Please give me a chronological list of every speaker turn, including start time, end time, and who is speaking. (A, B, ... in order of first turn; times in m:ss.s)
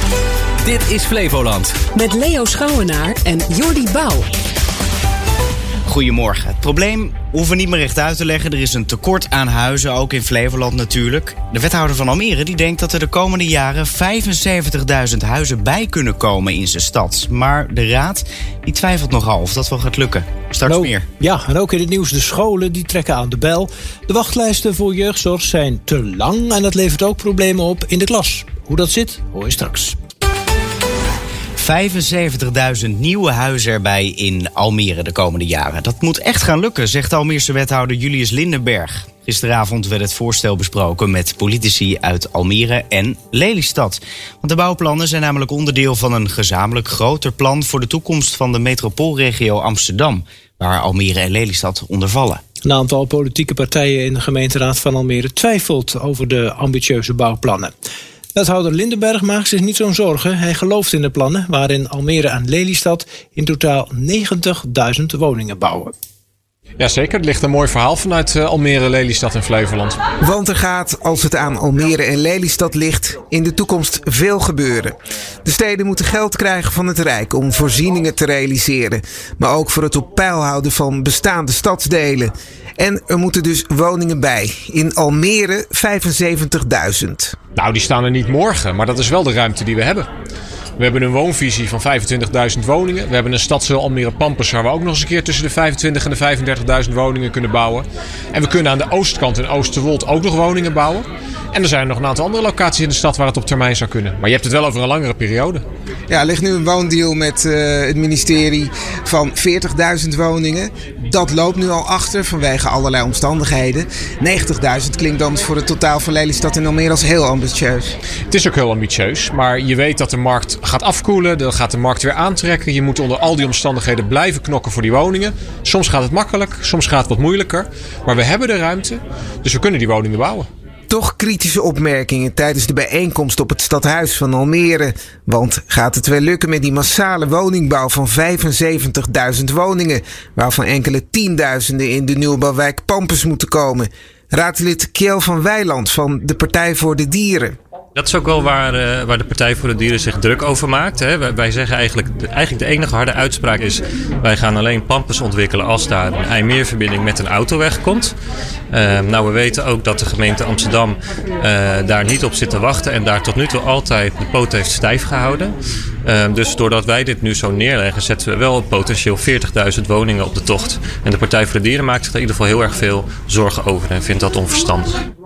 0:01.9-0:04.3 A
0:05.9-0:21.1 B
0:20.7-0:30.0 C
0:31.6-0:52.4 B
0:52.6-0:57.7 C
0:58.4-1:05.9 C
1:06.8-1:10.0 D
1:10.2-1:27.4 E
1:27.6-1:30.1 D
1:30.8-1:45.6 D
1:46.1-1:58.0 E
1:58.3-2:10.5 D
2:10.9-2:27.6 E
2:28.0-2:38.1 F
2:38.7-2:45.5 F
2:46.0-2:55.0 F